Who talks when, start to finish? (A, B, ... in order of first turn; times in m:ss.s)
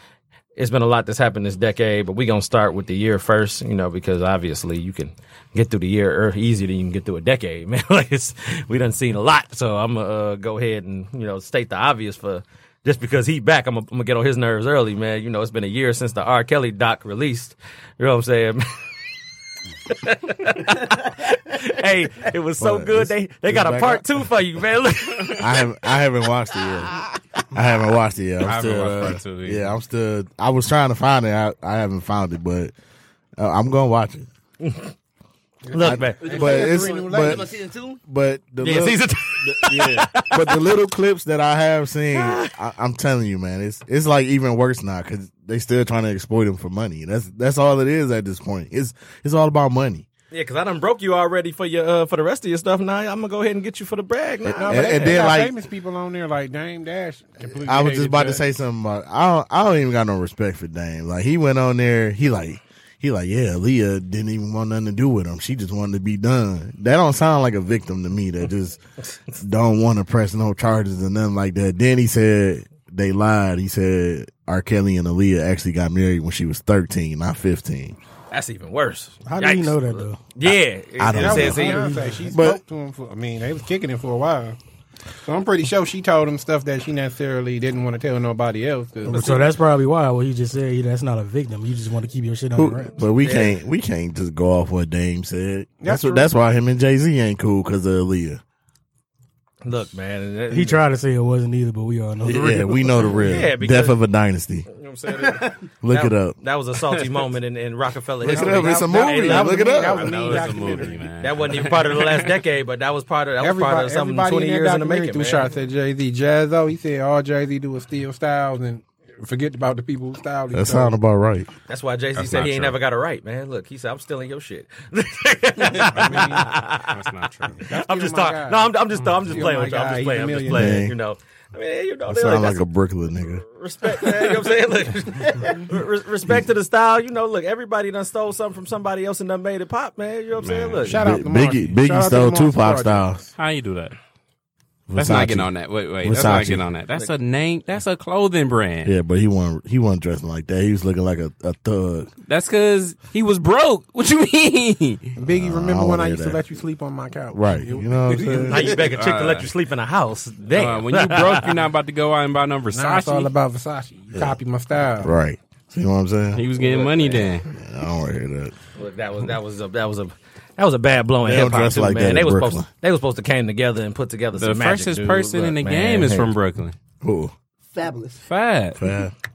0:00.6-0:18.7 A
0:19.8-0:25.6 A
0:22.6-0:24.4 B
0:25.3-0:32.7 B
0:28.4-0:29.7 C
0:33.4-0:34.3 B
0:34.6-0:34.9 A
0:35.6-0:38.0 D
0:35.7-0:36.3 A
0:35.8-0:37.5 B
0:36.2-0:37.6 E
0:38.0-0:50.1 B
0:38.6-0:40.5 A
0:42.1-0:42.5 A
0:50.3-0:55.3 A
0:54.4-0:55.6 B
0:54.6-0:58.4 E
0:57.6-1:08.8 B
1:09.3-1:18.0 B
1:18.3-1:21.9 A
1:19.2-1:20.2 F
1:20.4-1:22.6 B
1:21.1-1:24.6 E
1:21.2-1:22.3 F
1:25.2-1:29.4 E
1:29.0-1:32.9 F
1:29.1-1:29.4 A
1:32.5-1:38.4 B
1:33.2-1:33.5 A
1:35.8-1:36.3 E
1:39.6-1:40.8 A
1:40.5-1:43.3 F
1:42.2-1:44.7 B
1:43.2-1:44.0 A
1:44.7-1:49.9 A
1:45.6-1:46.4 B
1:48.2-1:50.2 B
1:48.3-1:51.1 E
1:49.8-1:52.4 C
1:51.2-1:55.5 A
1:53.4-2:01.0 E
2:00.5-2:01.5 B
2:01.7-2:07.0 A
2:02.2-2:02.8 C
2:05.8-2:06.5 E
2:05.9-2:07.6 C
2:07.6-2:12.6 A
2:07.7-2:08.7 E
2:09.0-2:09.4 C
2:09.3-2:10.8 E
2:10.5-2:10.9 B
2:12.1-2:13.4 B
2:13.3-2:21.0 A
2:20.4-2:20.9 C
2:20.9-2:23.1 E
2:20.9-2:23.2 B
2:23.4-2:24.0 C
2:24.9-2:26.6 B
2:24.9-2:28.9 C
2:28.8-2:32.1 B
2:32.2-2:35.0 C
2:35.2-2:38.5 E
2:35.3-2:36.4 B
2:37.3-2:38.8 B
2:38.2-2:41.5 A
2:38.7-2:39.5 C
2:40.5-2:43.3 C
2:42.7-2:45.1 E
2:45.0-2:46.4 B
2:46.3-2:47.5 C
2:46.6-2:47.3 A
2:47.4-2:48.5 B
2:48.8-2:56.3 A
2:51.2-2:52.7 B
2:54.3-2:56.7 C
2:57.0-2:57.3 B
2:57.7-2:58.2 D
2:58.2-2:58.8 C
2:58.8-2:59.1 B